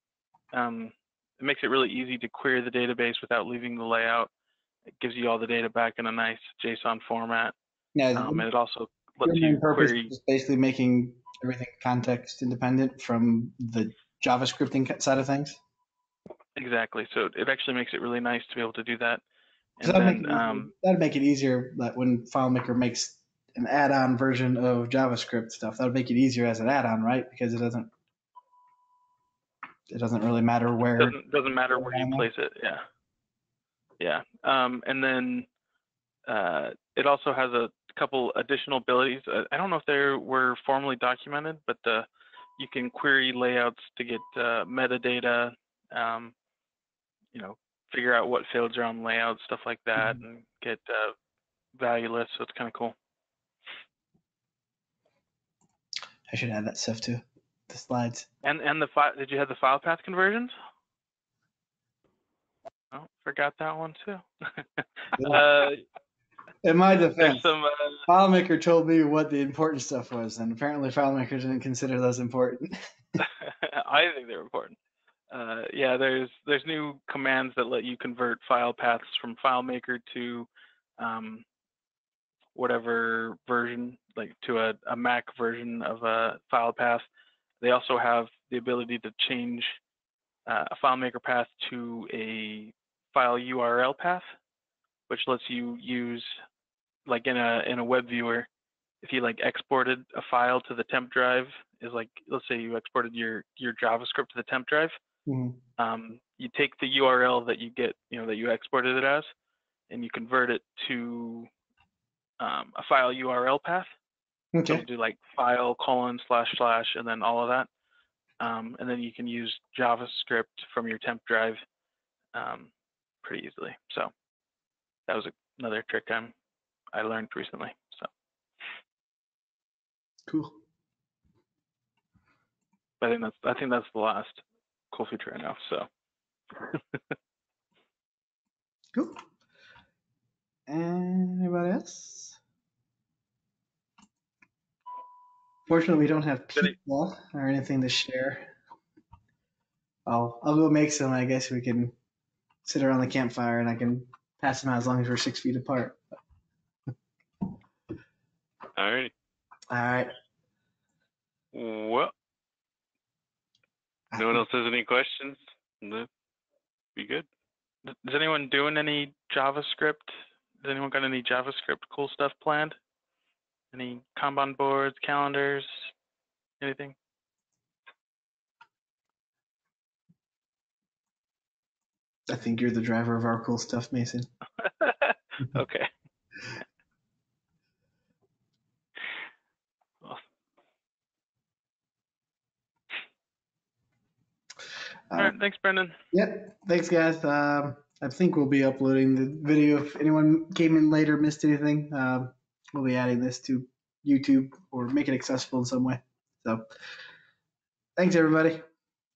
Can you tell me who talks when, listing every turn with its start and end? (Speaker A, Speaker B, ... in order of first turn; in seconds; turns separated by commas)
Speaker A: 0.5-4.3, Speaker A: 5.0-7.5, Speaker B: 8.0-8.4, Speaker A: 8.2-10.1, Speaker B: 9.2-15.6, Speaker A: 16.6-19.2, Speaker A: 19.8-20.7, Speaker B: 19.8-27.9, Speaker B: 29.9-31.2, Speaker A: 31.0-32.8, Speaker B: 31.7-32.3, Speaker A: 34.0-35.5, Speaker A: 36.3-42.1, Speaker A: 42.6-46.3, Speaker A: 47.3-51.1, Speaker A: 51.8-53.0, Speaker B: 56.3-58.3, Speaker A: 58.4-60.5, Speaker A: 62.9-65.8, Speaker B: 65.2-65.4, Speaker B: 66.6-67.5, Speaker A: 67.2-68.1, Speaker B: 68.1-72.8, Speaker A: 73.2-74.8, Speaker A: 75.3-80.5, Speaker A: 81.0-81.5, Speaker A: 82.5-87.1, Speaker A: 87.6-89.7, Speaker A: 90.5-94.2, Speaker A: 95.1-96.3, Speaker A: 97.1-98.5, Speaker A: 99.0-105.0, Speaker B: 105.3-105.6, Speaker A: 105.8-109.3, Speaker A: 109.9-111.5, Speaker A: 112.4-113.9, Speaker B: 114.5-114.8, Speaker A: 114.7-117.7, Speaker A: 118.4-121.6, Speaker A: 122.3-122.7, Speaker A: 123.2-124.1, Speaker A: 125.1-126.3, Speaker A: 126.9-128.1, Speaker B: 130.3-130.6, Speaker A: 133.0-135.9, Speaker B: 138.9-139.2, Speaker B: 140.7-142.4, Speaker B: 145.7-148.5, Speaker B: 150.1-151.9, Speaker B: 152.6-156.0, Speaker C: 158.8-159.1, Speaker B: 159.7-160.1, Speaker C: 161.5-162.1, Speaker B: 164.1-164.4, Speaker C: 164.2-166.1, Speaker C: 166.9-167.3, Speaker A: 167.9-172.8, Speaker A: 173.7-175.9, Speaker A: 176.6-176.9, Speaker B: 182.3-184.3, Speaker A: 184.6-185.9, Speaker A: 195.2-196.0, Speaker B: 196.1-206.6, Speaker B: 208.0-208.6